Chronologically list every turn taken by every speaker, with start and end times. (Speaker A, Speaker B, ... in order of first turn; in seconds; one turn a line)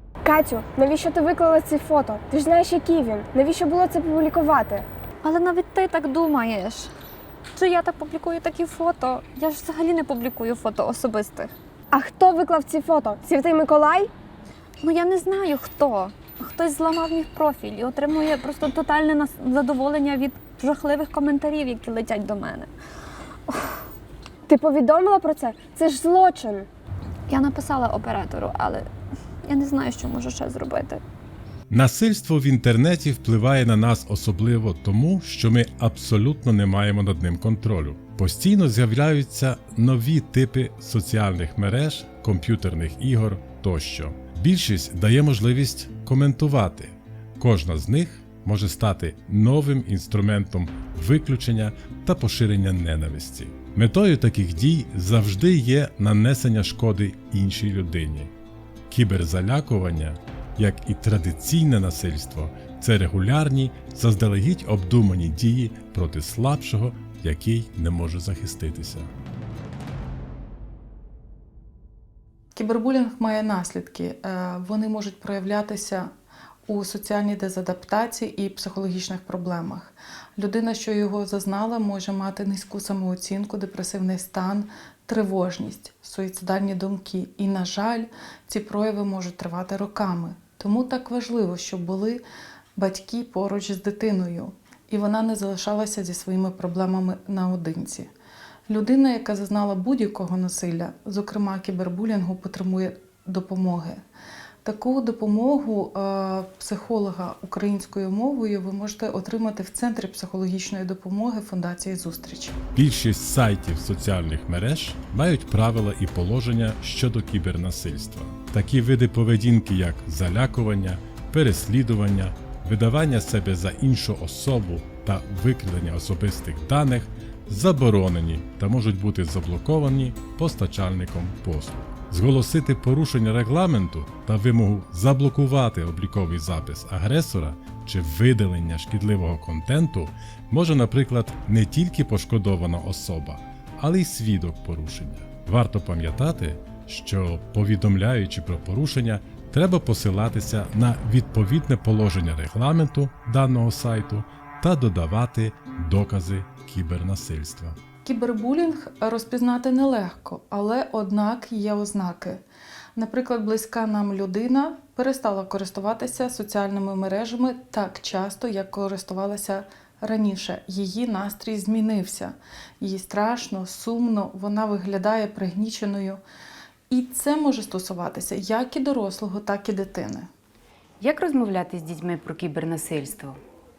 Speaker A: 0.2-4.9
Speaker B: 5.2-6.9
Speaker B: 7.5-11.5
Speaker A: 11.9-14.1
Speaker B: 14.8-22.7
Speaker A: 24.5-26.7
Speaker B: 27.3-28.9
Speaker B: 29.4-31.0
Speaker C: 31.7-58.3
Speaker C: 58.9-69.1
Speaker D: 72.5-76.1
Speaker D: 76.7-92.2
Speaker D: 92.8-98.1
Speaker D: 98.7-104.0
Speaker D: 104.6-112.6
Speaker C: 112.8-157.8
Speaker D: 158.0-162.4
Speaker D: 163.0-176.2
Speaker D: 176.9-180.3
Speaker E: 181.0-183.4